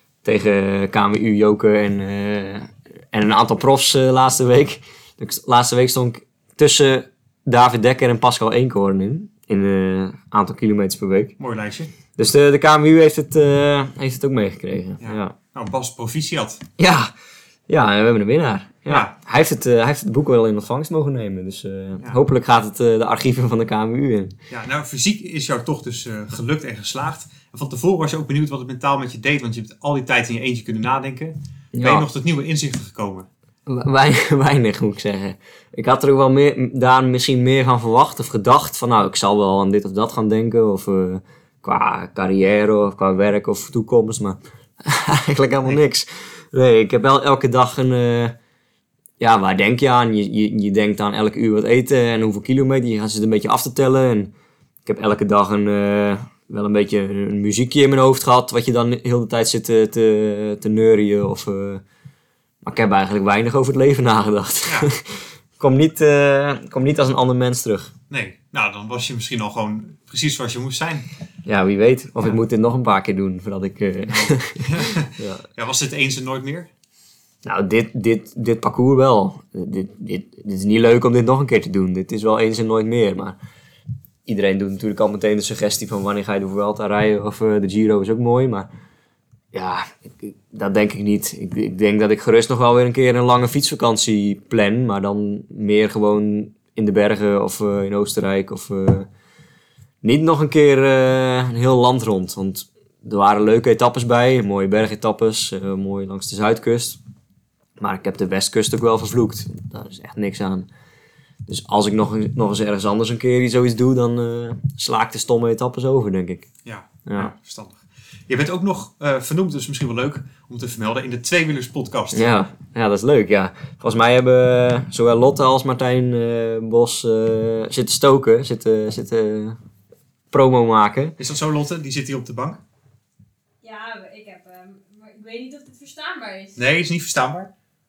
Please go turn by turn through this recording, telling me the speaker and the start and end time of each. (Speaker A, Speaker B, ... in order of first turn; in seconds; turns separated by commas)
Speaker A: 0.2-11.3, Speaker B: 11.4-11.9, Speaker A: 12.2-15.3, Speaker B: 15.0-16.6, Speaker A: 16.8-17.1, Speaker A: 17.7-24.4, Speaker B: 18.9-19.1, Speaker B: 24.5-33.3, Speaker A: 31.7-32.1, Speaker A: 33.7-48.4, Speaker A: 49.2-54.3, Speaker A: 54.9-61.8, Speaker A: 62.6-67.9, Speaker B: 64.7-64.9, Speaker B: 68.1-71.1, Speaker A: 71.5-75.4, Speaker B: 74.0-76.7, Speaker A: 77.4-83.4, Speaker A: 84.3-88.7, Speaker A: 89.5-99.1, Speaker A: 100.0-107.0, Speaker A: 107.8-110.7, Speaker A: 111.5-116.5, Speaker B: 116.7-122.3, Speaker A: 117.1-117.3, Speaker A: 122.1-129.6, Speaker A: 130.3-131.2, Speaker B: 131.2-132.6, Speaker C: 133.6-136.6, Speaker B: 136.6-137.5